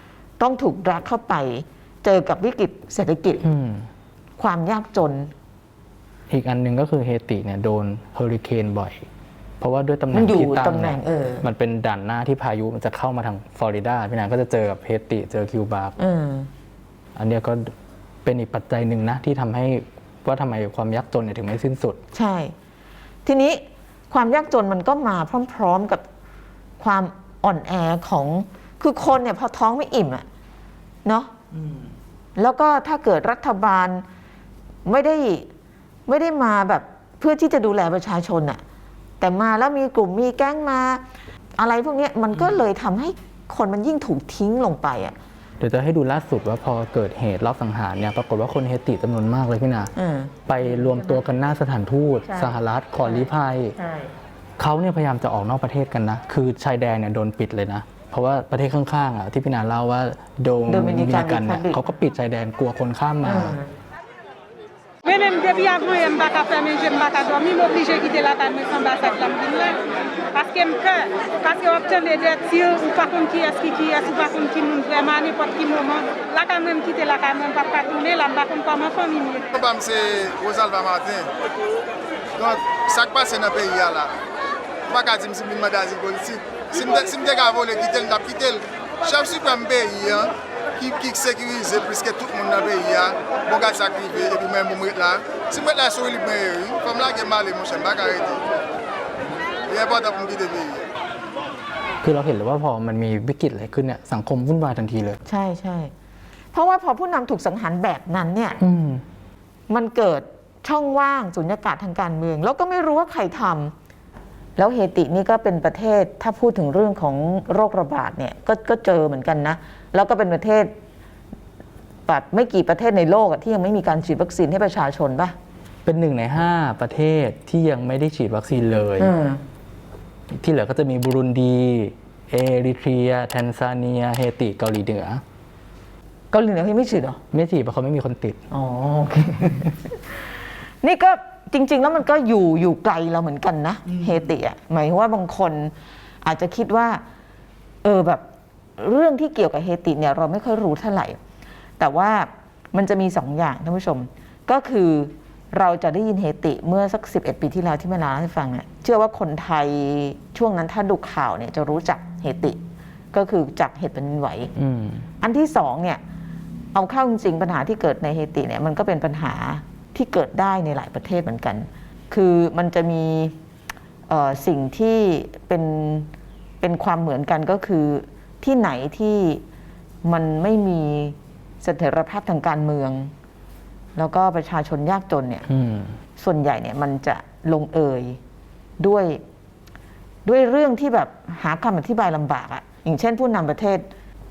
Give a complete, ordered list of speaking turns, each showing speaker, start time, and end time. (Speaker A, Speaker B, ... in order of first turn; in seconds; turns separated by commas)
Speaker A: 0.4-3.4, Speaker B: 3.4-3.9, Speaker A: 4.4-5.3, Speaker B: 6.3-9.1, Speaker B: 9.6-16.0, Speaker A: 10.1-11.4, Speaker A: 16.0-16.5, Speaker B: 17.1-22.0, Speaker A: 22.1-22.5, Speaker A: 23.2-26.1, Speaker A: 26.8-30.3, Speaker A: 31.1-31.3, Speaker A: 32.4-34.0, Speaker A: 34.9-35.5, Speaker A: 36.1-38.6, Speaker A: 39.2-41.0, Speaker A: 41.6-45.2, Speaker B: 45.6-49.9, Speaker A: 50.0-51.2, Speaker B: 50.5-53.8, Speaker A: 52.3-54.1, Speaker B: 54.6-63.6, Speaker A: 60.7-61.8, Speaker A: 63.2-63.7, Speaker C: 65.0-79.5, Speaker D: 79.5-81.3, Speaker D: 82.4-84.2, Speaker D: 84.9-98.5, Speaker D: 99.7-100.9, Speaker B: 102.0-105.2, Speaker A: 105.3-105.9, Speaker A: 106.5-108.6, Speaker B: 108.6-109.0, Speaker A: 109.7-113.7, Speaker A: 114.6-120.7, Speaker A: 122.1-125.4, Speaker B: 125.8-129.1, Speaker A: 129.0-129.4, Speaker B: 130.3-135.2, Speaker A: 136.3-137.2, Speaker B: 137.3-138.4, Speaker A: 138.5-140.3, Speaker A: 140.8-147.0, Speaker A: 147.8-148.2, Speaker A: 148.8-151.2, Speaker A: 151.8-162.6, Speaker A: 163.1-164.5, Speaker B: 164.6-165.1, Speaker A: 165.2-166.0, Speaker A: 166.7-173.4, Speaker A: 174.1-176.1, Speaker A: 176.6-179.4, Speaker A: 180.0-183.1, Speaker A: 183.9-185.5, Speaker B: 185.5-185.9, Speaker A: 186.2-188.2, Speaker A: 188.8-189.2, Speaker A: 190.2-193.9